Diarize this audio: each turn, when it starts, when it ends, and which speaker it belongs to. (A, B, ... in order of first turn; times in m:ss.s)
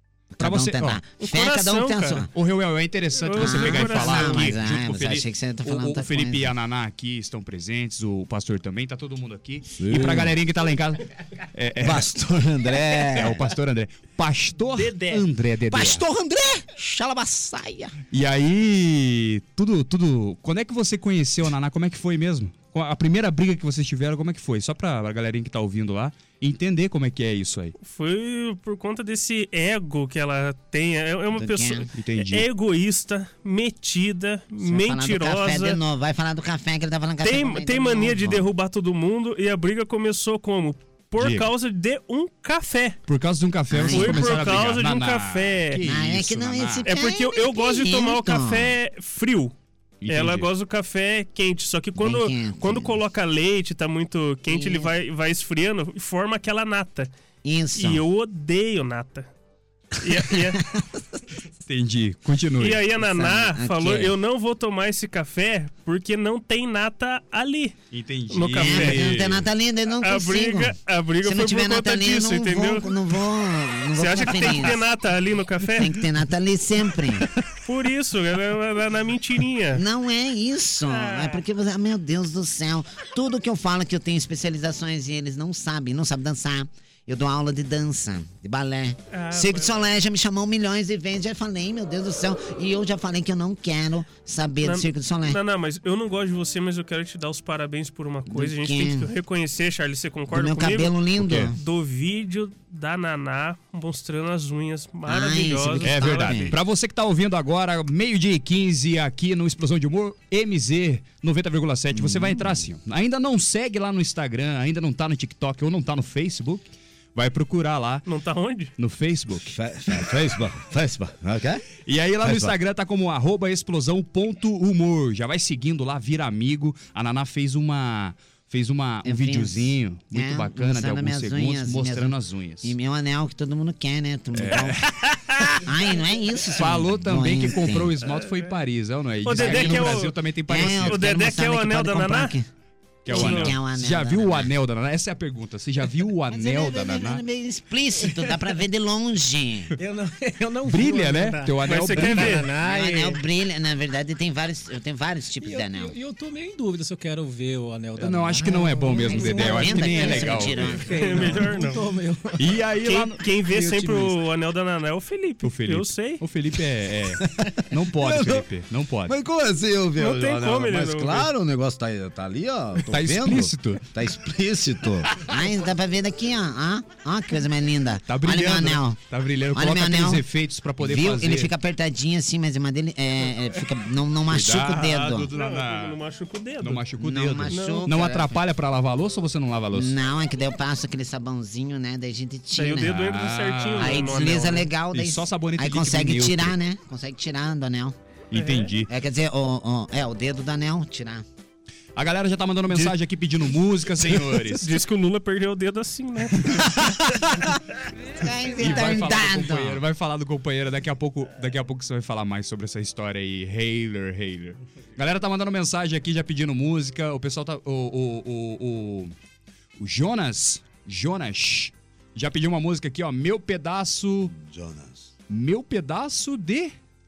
0:00.3-0:02.3 A
0:00.4-0:01.0 B
0:01.2-0:02.3 C
0:02.3-0:12.1 B
0:03.2-0:04.5 C
0:03.4-0:06.5 A
0:09.7-0:10.3 D
0:11.8-0:13.4 D
0:12.7-0:13.2 A
0:13.1-0:16.0 B
0:14.7-0:15.2 C
0:15.7-0:17.9 A
0:18.1-0:27.7 B
0:27.8-0:35.8 C
0:31.3-0:31.9 A
0:31.9-0:32.5 B
0:34.6-0:38.5 A
0:37.2-0:43.0 C
0:41.2-0:41.5 B
0:43.1-0:46.8 B
0:43.7-0:44.6 A
0:43.8-0:45.8 C
0:45.8-0:48.8 A
0:46.8-0:49.5 C
0:50.0-0:50.5 B
0:50.1-0:57.1 C
0:52.0-0:53.0 A
0:54.5-0:54.9 A
0:57.4-0:58.0 A
0:57.7-0:59.3 C
1:00.0-1:00.6 C
1:00.4-1:01.0 A
1:01.6-1:02.9 B
1:02.6-1:07.7 C
1:03.0-1:04.1 A
1:07.9-1:09.5 B
1:08.3-1:09.1 C
1:08.6-1:14.8 A
1:10.0-1:13.0 C
1:13.9-1:16.1 C
1:15.8-1:17.3 A
1:17.5-1:19.8 C
1:19.7-1:35.4 A
1:20.9-1:21.4 C
1:29.1-1:29.8 C
1:34.6-1:41.0 C
1:38.3-1:39.1 A
1:40.3-1:41.6 A
1:41.2-1:41.5 B
1:41.5-1:46.5 C
1:45.0-1:46.6 A
1:45.8-1:58.0 B
1:52.0-1:52.5 D
1:58.0-1:58.7 C
1:58.8-2:00.1 B
1:59.4-2:01.6 D
2:01.8-2:12.7 B
2:02.2-2:02.5 D
2:09.0-2:14.8 A
2:14.3-2:15.6 B
2:15.6-2:17.9 A
2:16.6-2:21.2 B
2:19.2-2:22.3 C
2:19.3-2:22.4 A
2:23.0-2:27.2 B
2:23.1-2:23.6 C
2:23.1-2:24.5 A
2:26.3-2:29.7 A
2:29.8-2:33.2 E
2:30.6-2:32.5 B
2:31.6-2:32.5 C
2:32.6-2:35.9 A
2:35.4-2:42.5 E
2:38.0-2:40.8 B
2:39.1-2:40.9 A
2:40.9-2:41.8 C
2:42.4-2:43.2 B
2:42.8-2:46.2 C
2:43.5-2:44.1 E
2:45.4-2:49.2 B
2:47.2-2:48.4 D
2:49.1-2:55.1 D
2:50.0-2:51.3 C
2:52.8-2:53.8 B
2:55.2-2:59.0 A
2:58.1-3:01.5 B
2:59.5-3:00.2 A
3:00.8-3:05.3 A
3:04.3-3:06.0 B
3:04.7-3:06.8 C
3:06.6-3:09.9 B
3:07.0-3:08.4 A
3:07.5-3:07.9 C
3:09.7-3:13.1 A
3:12.5-3:14.7 C
3:12.9-3:14.2 B
3:13.7-3:18.0 A
3:14.9-3:16.5 B
3:18.3-3:18.9 B
3:18.3-3:18.7 C
3:18.9-3:21.2 A
3:22.0-3:24.8 B
3:24.1-3:27.0 C
3:28.1-3:29.8 A
3:28.6-3:39.1 B
3:39.8-3:44.3 B
3:44.4-3:45.0 D
3:45.3-3:46.7 B